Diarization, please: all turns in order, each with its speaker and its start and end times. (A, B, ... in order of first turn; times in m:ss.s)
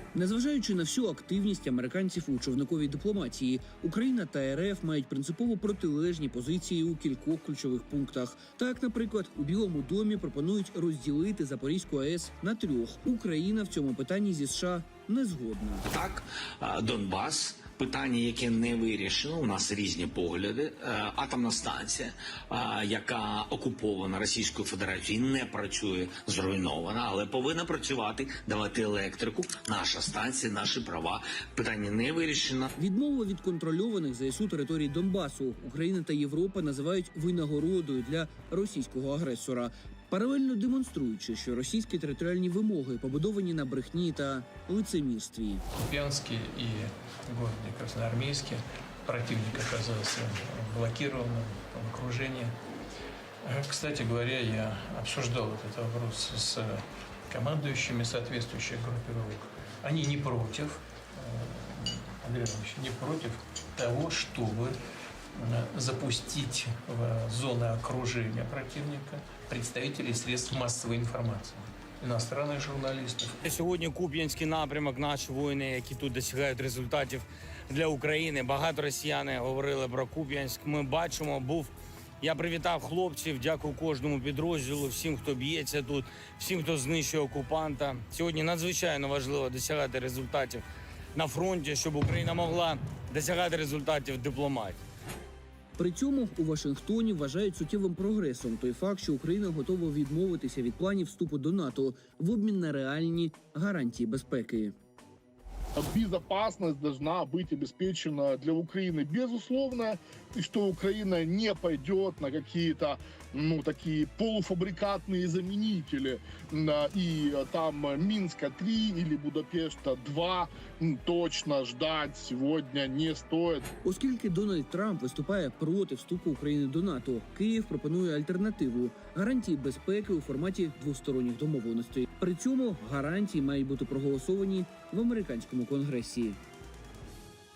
0:00.1-0:15.9 A
0:17.1-0:20.5 B
0:21.1-0:32.3 B
0:32.8-0:45.6 A
0:45.8-0:52.6 C
0:53.4-1:04.8 C
1:05.4-1:13.4 C
1:13.4-1:34.8 D
1:35.8-1:44.8 A
1:45.8-2:03.6 E
2:03.8-2:16.4 A